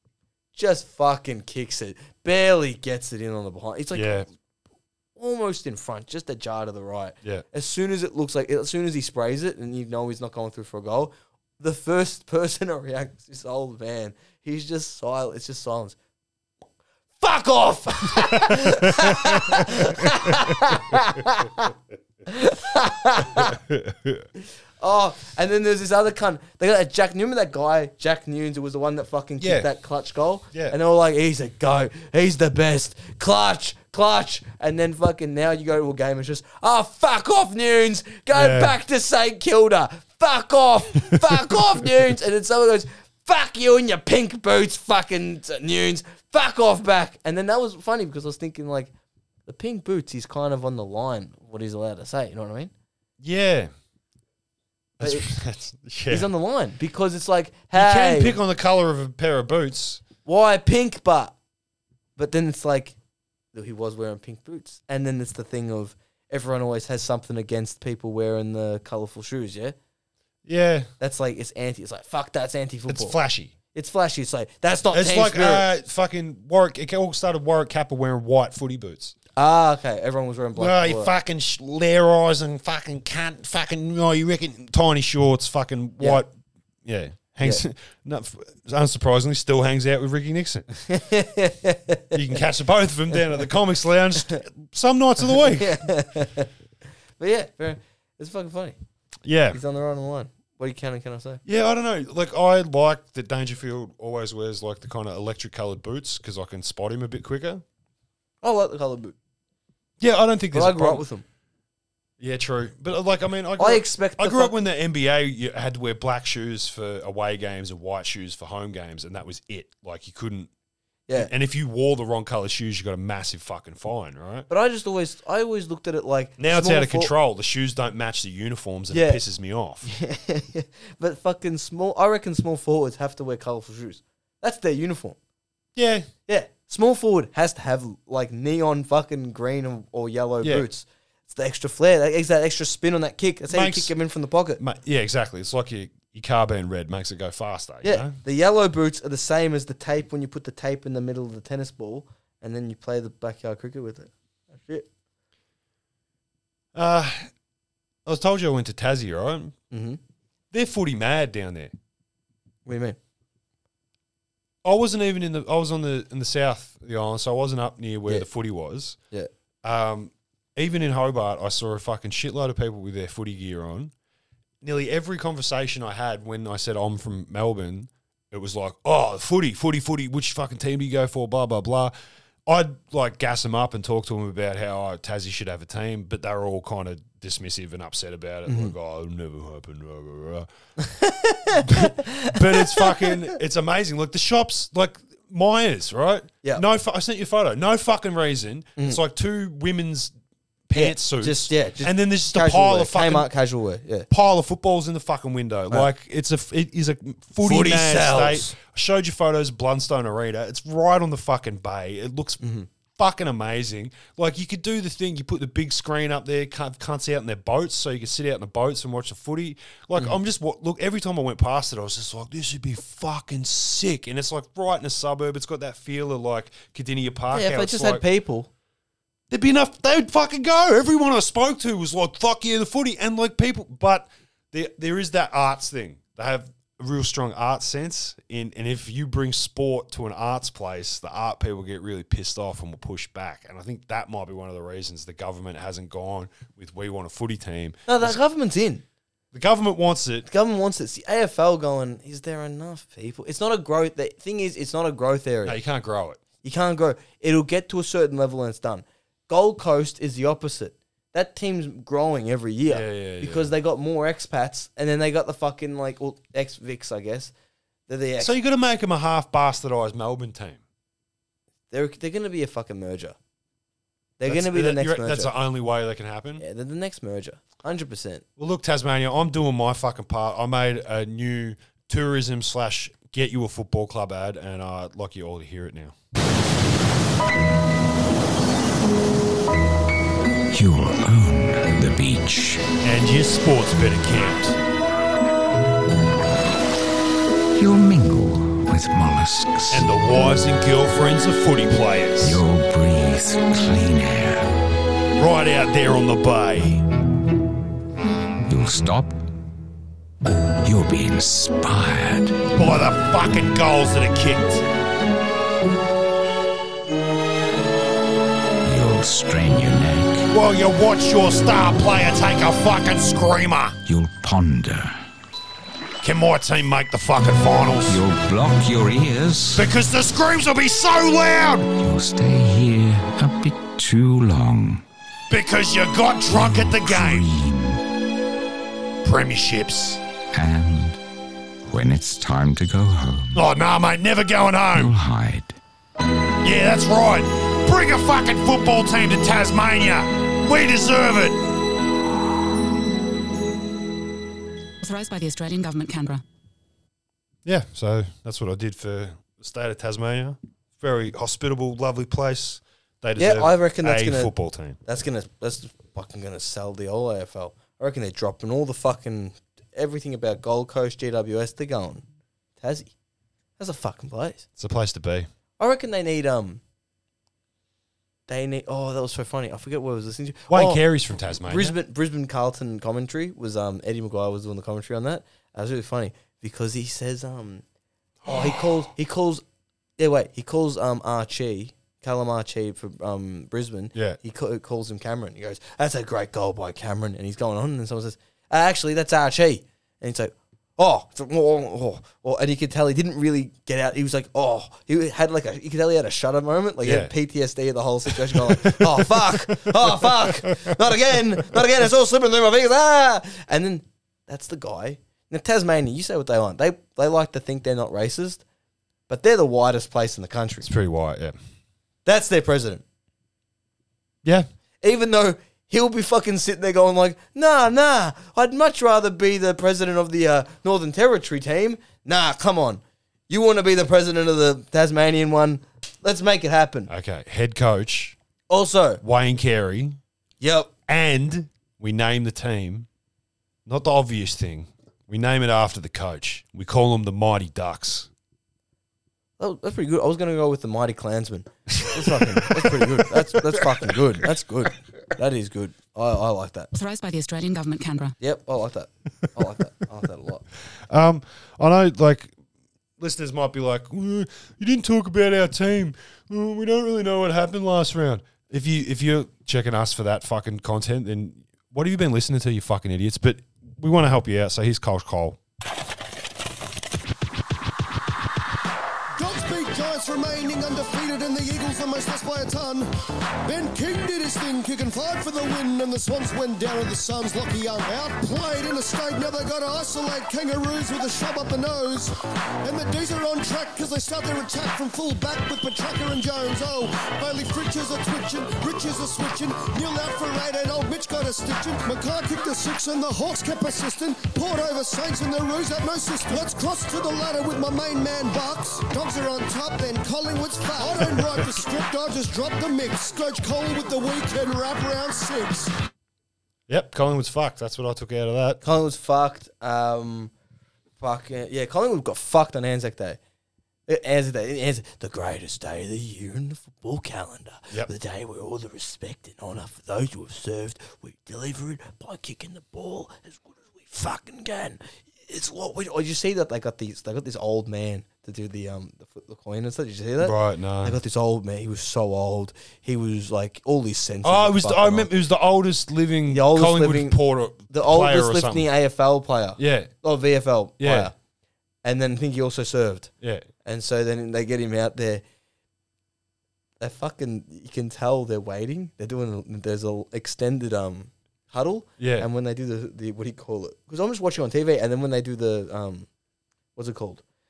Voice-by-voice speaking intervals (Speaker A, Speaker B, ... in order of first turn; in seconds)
Speaker A: 0.5-4.3, 5.2-16.0, 17.2-21.7, 22.3-23.6, 24.8-48.9, 49.5-52.7, 55.0-55.3, 56.1-58.4, 60.2-61.4, 62.2-63.0, 63.5-69.8, 71.0-73.2, 73.7-75.7, 79.4-81.1, 90.9-92.4, 95.3-96.5, 97.2-98.8, 99.5-101.4, 108.4-109.2, 110.5-111.2, 113.6-114.6, 124.5-127.1, 128.9-129.2, 129.8-135.2, 136.3-144.6, 147.8-154.9, 159.7-160.0, 162.7-163.0, 188.5-188.7, 190.8-193.3, 200.7-204.1, 207.4-208.6, 212.4-212.7, 227.3-228.5, 247.9-248.8, 250.3-255.6, 256.4-267.3, 267.9-268.4, 271.7-273.2, 274.2-275.3, 276.4-278.2, 363.2-364.3, 364.8-372.0, 372.6-372.9, 373.6-374.5, 375.6-376.6, 378.3-380.8, 381.4-387.6, 388.3-389.4, 390.0-418.4, 419.1-420.7, 422.1-422.8, 424.8-436.9, 438.5-439.0, 440.4-440.7, 449.4-456.7, 458.2-460.4, 518.6-520.3, 521.0-523.2, 523.9-545.1, 546.3-551.1, 551.8-553.1, 553.6-555.2, 556.8-566.1, 566.8-567.2
Speaker B: 3.9-4.3, 18.3-20.8, 23.4-24.3, 29.4-29.7, 38.3-38.8, 53.2-53.7, 55.0-56.3, 57.7-60.0, 70.5-70.9, 72.9-73.5, 74.9-79.2, 80.6-86.3, 86.8-90.7, 92.1-95.8, 99.2-99.6, 101.5-107.6, 110.0-111.0, 112.2-120.5, 121.2-124.5, 126.4-129.9, 135.8-136.1, 143.5-143.9, 144.6-148.2, 156.7-157.3, 158.1-159.6, 160.5-161.7, 164.6-169.0, 169.6-173.9, 174.6-181.9, 182.5-190.5, 191.7-200.1, 200.7-203.3, 204.1-212.4, 212.9-228.0, 229.3-248.2, 249.3-250.3, 255.4-256.2, 262.7-263.5, 268.2-270.6, 274.2-276.4, 278.4-285.9, 292.8-294.6, 299.7-302.4, 305.2-306.9, 312.5-314.6, 320.3-323.8, 326.0-328.0, 329.5-331.7, 335.3-337.3, 339.0-340.0, 343.3-344.9, 346.4-351.4, 357.4-364.8, 374.6-375.3, 380.5-381.8, 388.3-388.6, 406.8-407.1, 408.1-410.8, 420.6-421.4, 436.9-438.2, 439.0-440.0, 440.9-442.9, 443.7-448.1, 451.8-453.9, 460.9-462.3, 463.0-475.4, 516.7-518.6, 540.2-541.0, 544.2-548.7, 549.6-549.9, 550.8-551.1, 562.0-562.3
Speaker C: 290.5-292.6, 297.6-299.9, 302.2-304.5, 308.5-309.2, 310.6-312.4, 318.6-320.3, 323.9-325.0, 327.9-329.7, 331.8-334.8, 336.3-337.8, 340.3-341.0, 341.7-343.5, 344.7-345.6
Speaker D: 354.8-356.2, 456.7-458.1
Speaker E: 479.2-482.9, 483.5-515.7